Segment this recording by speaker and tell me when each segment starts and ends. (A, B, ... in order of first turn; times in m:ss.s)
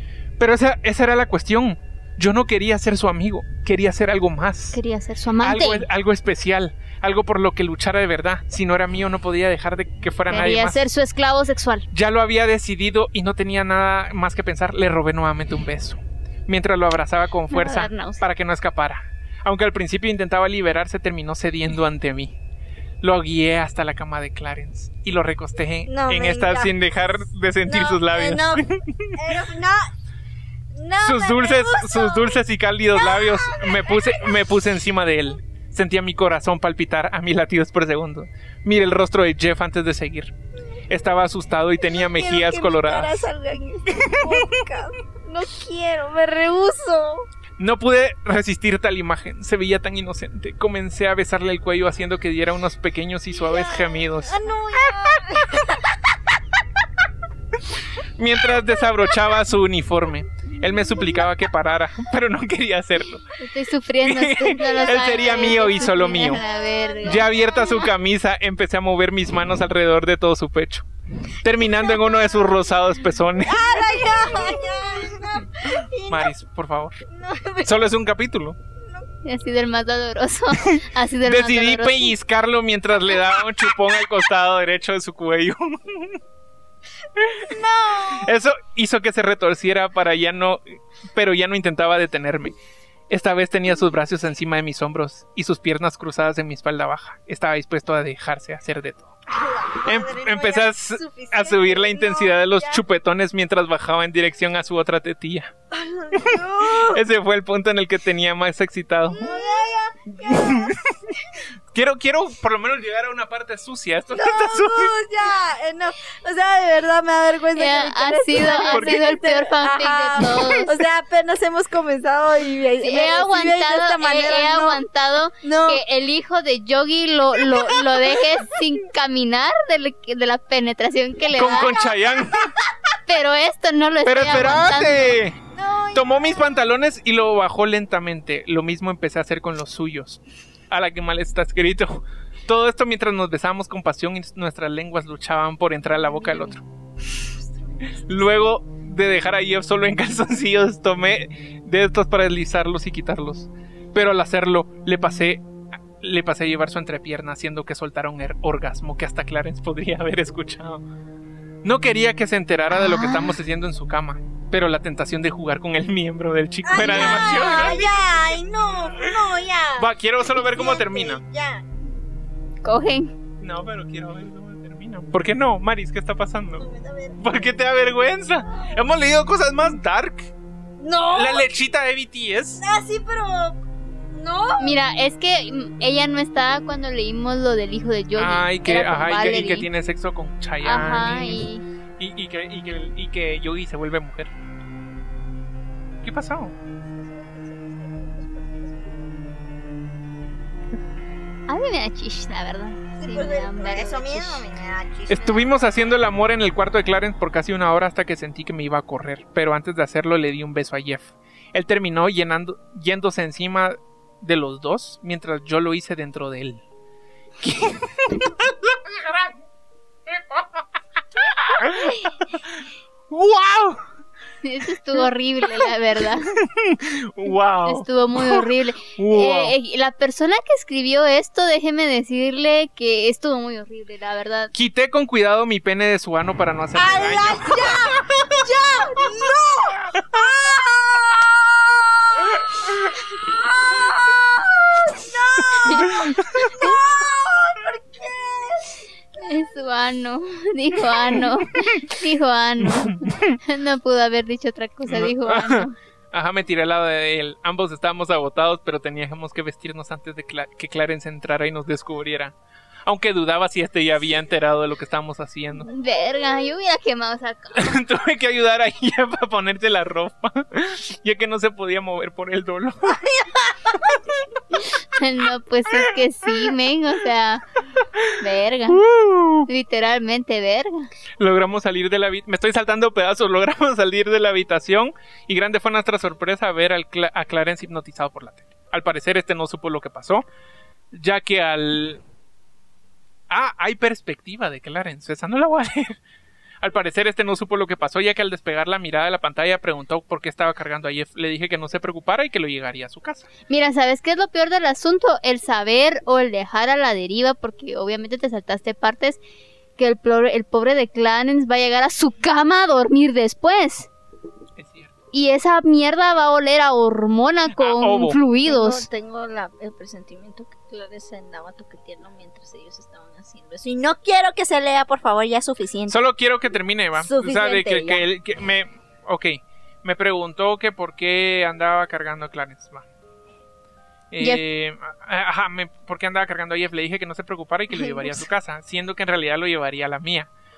0:00.4-0:04.8 A
0:04.7-0:05.8 B
0:05.4-0:10.9 A
0:10.3-0:11.8 B
0:11.9-0:22.4 A
0:17.5-0:18.2 B
0:23.0-0:29.3 A
0:25.8-0:26.7 C
0:27.6-0:29.9 C
0:30.7-0:32.4 C
0:31.0-0:40.3 A
0:32.9-0:34.4 C
0:40.9-0:43.3 A
0:41.9-0:47.2 C
0:43.9-0:44.6 A
0:47.6-0:54.4 A
0:53.4-0:55.9 C
0:58.2-1:03.3 A
1:03.4-1:07.3 B
1:04.0-1:06.4 A
1:04.6-1:07.8 C
1:07.0-1:10.9 A
1:11.4-1:13.9 A
1:13.4-1:16.3 C
1:16.1-1:17.0 A
1:17.1-1:17.9 C
1:17.6-1:18.6 A
1:19.2-1:22.1 B
1:20.6-1:26.2 A
1:27.2-1:32.5 A
1:27.2-1:28.3 C
1:33.1-1:39.1 A
1:39.3-1:42.8 C
1:39.8-1:45.5 A
1:45.7-1:47.0 C
1:46.1-1:49.5 A
1:49.1-1:50.8 C
1:50.2-1:51.0 A
1:51.7-1:54.9 A
1:54.1-2:04.8 C
1:57.5-2:00.8 B
1:58.5-1:59.1 A
2:02.8-2:11.8 B
2:05.4-2:05.8 C
2:07.4-2:08.4 C
2:11.3-2:12.5 A
2:13.1-2:15.2 B
2:14.0-2:15.4 A
2:15.5-2:16.6 C
2:15.9-2:26.6 A
2:26.2-2:26.5 C
2:27.2-2:28.3 C
2:28.0-2:40.8 A
2:41.6-2:48.2 A
2:42.7-2:43.3 B
2:46.6-2:51.6 C
2:46.8-2:47.3 B
2:49.8-2:51.2 A
2:52.6-2:53.1 B
2:53.4-2:56.6 A
2:56.6-2:57.4 C
2:57.2-3:00.3 A
3:00.8-3:01.5 C
3:01.1-3:02.6 A
3:02.6-3:04.8 C
3:04.6-3:09.7 B
3:08.2-3:11.5 A
3:10.6-3:11.6 B
3:12.0-3:14.3 A
3:16.0-3:16.5 A
3:17.0-3:19.1 C
3:21.5-3:24.4 B
3:23.0-3:25.6 C
3:25.1-3:36.6 A
3:37.4-3:39.3 A
3:40.1-3:40.6 A
3:41.2-3:42.6 A
3:43.1-3:43.8 A
3:44.4-3:46.4 B
3:46.4-3:49.6 A
3:47.6-3:54.5 B
3:54.5-3:58.0 A
3:56.7-4:08.7 C
4:05.6-4:06.5 A
4:05.6-4:06.7 B
4:09.2-4:15.7 B
4:10.9-4:11.8 A
4:12.6-4:13.4 A
4:14.9-4:25.7 A
4:25.6-4:27.8 B
4:27.5-4:33.0 A
4:32.9-4:34.0 C
4:33.7-4:34.0 A
4:34.8-4:37.4 B
4:38.1-4:38.8 B
4:38.7-4:39.5 A
4:39.5-4:40.9 B
4:41.2-4:50.2 A
4:50.9-4:52.0 A
4:53.3-4:56.0 A
4:56.6-5:03.3 A
5:03.5-5:09.2 B
5:09.8-5:13.9 B
5:14.6-5:14.9 A
5:15.1-5:18.9 B
5:17.6-5:18.2 A
5:18.4-5:26.0 C
5:25.9-5:32.8 A
5:27.0-5:28.0 C
5:34.1-5:40.3 A